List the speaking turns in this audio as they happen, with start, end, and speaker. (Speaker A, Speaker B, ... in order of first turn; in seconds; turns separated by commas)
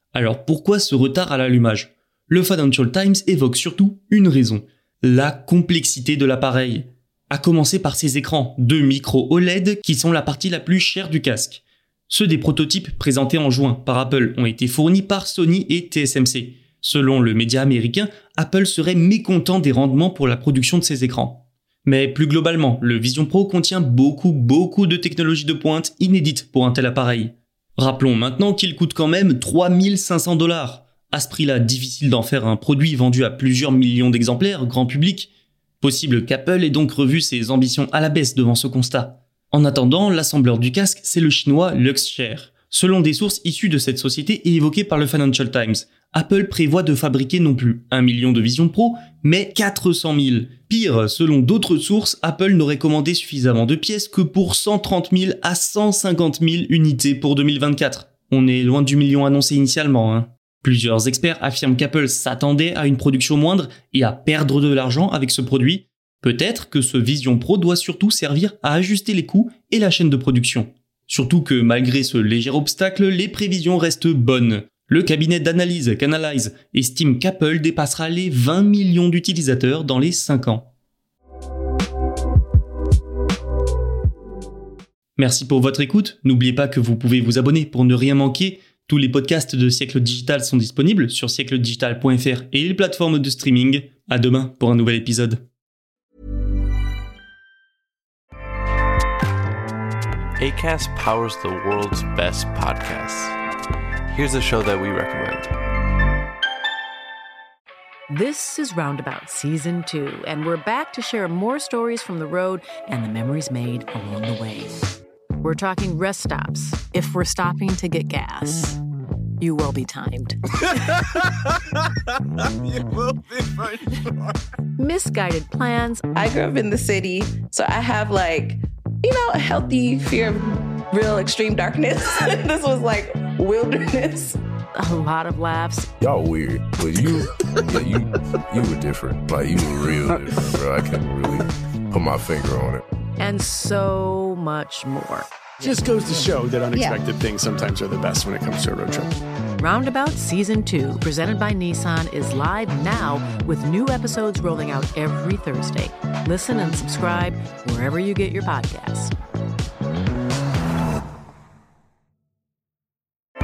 Speaker A: 0.1-35.3, Speaker A: 35.8-80.7, Speaker A: 85.2-95.5, Speaker B: 100.4-103.4, Speaker B: 104.1-105.5, Speaker C: 108.1-114.9, Speaker C: 115.4-118.8, Speaker C: 119.4-120.4, Speaker C: 124.8-126.2, Speaker D: 126.1-134.3, Speaker C: 134.2-135.9, Speaker E: 136.0-142.8, Speaker C: 143.2-145.3, Speaker F: 145.6-149.1, Speaker D: 146.7-147.0, Speaker C: 149.6-159.1